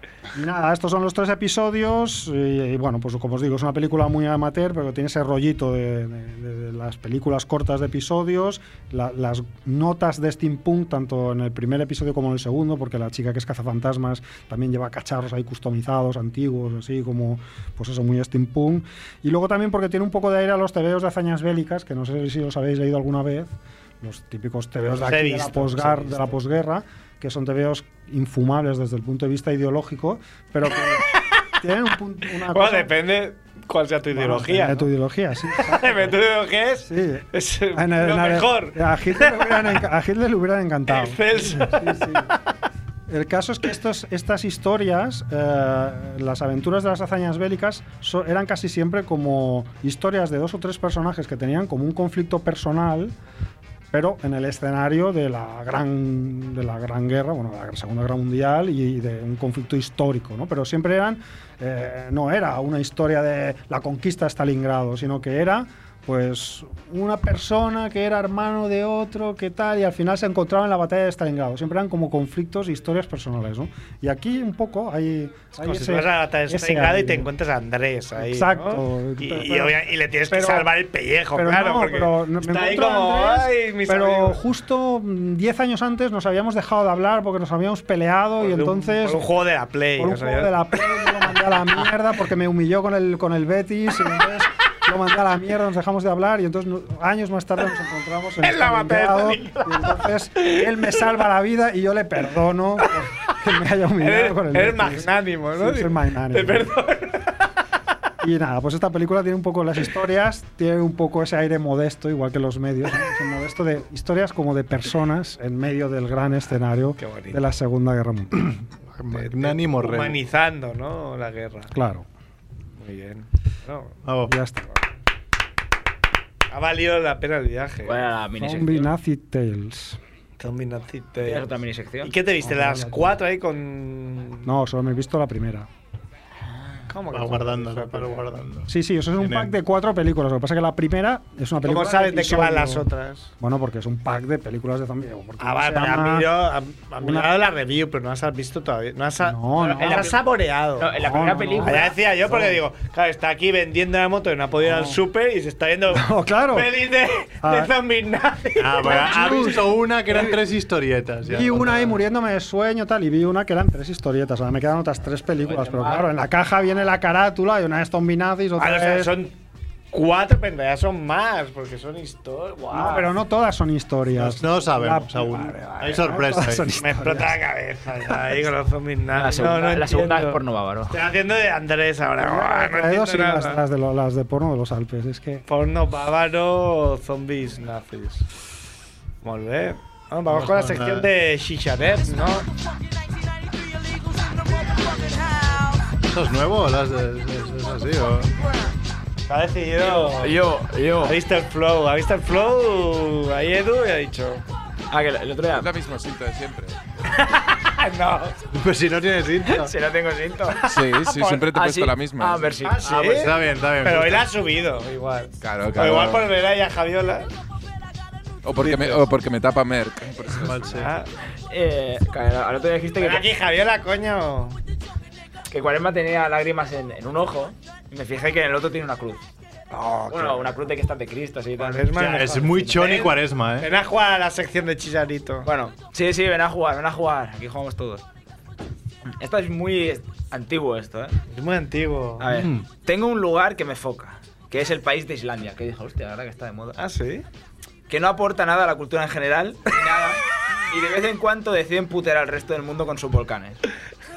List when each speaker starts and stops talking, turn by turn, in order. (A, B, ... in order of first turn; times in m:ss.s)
0:00.3-0:32.9 A
0:25.0-0:26.4 B
0:30.9-0:31.4 B
0:32.4-0:34.9 B
0:34.1-0:36.2 A
0:35.6-0:39.7 B
0:36.8-0:42.3 A
0:40.9-0:42.4 B
0:43.1-0:53.1 A
0:53.9-1:17.3 A
1:15.6-1:24.4 B
1:18.2-1:19.7 A
1:20.3-1:20.7 A
1:21.3-1:29.2 A
1:28.4-1:31.3 B
1:30.0-1:46.7 A
1:38.4-1:40.7 B
1:44.0-1:47.4 B
1:48.2-1:58.6 A
1:57.0-1:57.4 B
1:58.4-2:00.2 C
1:59.1-2:01.7 B
2:01.7-2:02.0 A
2:02.8-2:04.0 B
2:04.0-2:04.3 C
2:04.3-2:04.8 A
2:06.5-2:08.1 B
2:07.8-2:08.9 D
2:08.4-2:10.0 A
2:10.4-2:14.5 B
2:11.2-2:12.2 D
2:12.4-2:13.1 A
2:14.4-2:15.7 A
2:16.9-2:18.4 B
2:17.1-2:19.5 C
2:18.7-2:22.8 A
2:21.6-2:23.3 B
2:23.4-2:26.3 A
2:25.4-2:39.6 B
2:27.0-2:27.3 A
2:29.2-2:30.1 A
2:29.8-2:30.2 D
2:30.8-2:32.0 D
2:30.9-2:31.8 A
2:34.6-2:35.0 A
2:35.9-2:36.8 A
2:37.4-2:37.7 A
2:38.6-2:42.0 C
2:38.9-2:39.7 A
2:41.3-2:49.1 A
2:45.4-2:46.0 B
2:48.6-2:49.3 B
2:49.9-2:53.1 B
2:52.7-2:57.4 A
2:54.1-2:56.7 C
2:55.8-2:56.2 B
2:56.8-3:03.6 B
2:59.1-3:01.0 D
3:02.2-3:05.4 A
3:05.5-3:08.3 B
3:09.2-3:12.4 B
3:10.3-3:11.1 C
3:16.0-3:18.3 C
3:19.3-3:20.4 B
3:19.8-3:21.2 D
3:21.0-3:24.4 B
3:24.9-3:25.7 D
3:25.5-3:26.8 E
3:27.1-3:28.4 B
3:28.5-3:29.7 C
3:29.6-3:30.7 D
3:30.6-3:32.6 E
3:30.6-3:31.5 B
3:31.5-3:33.3 D
3:32.6-3:37.3 B
3:32.9-3:34.3 C
3:35.4-3:36.2 E
3:35.8-3:36.2 C
3:38.4-3:40.9 E
3:38.6-3:39.0 B
3:40.3-3:40.9 C
3:40.7-3:41.1 B
3:41.5-3:43.2 D
3:43.0-3:44.6 B
3:45.5-3:49.2 D
3:49.7-3:50.5 B
3:50.1-3:52.9 D
3:51.6-3:55.5 B
3:52.0-3:53.7 C
3:55.4-3:58.0 D
3:59.2-4:01.2 D
4:01.3-4:02.3 B
4:02.2-4:06.8 D
4:02.3-4:02.6 C
4:06.8-4:07.2 B
4:07.9-4:13.6 D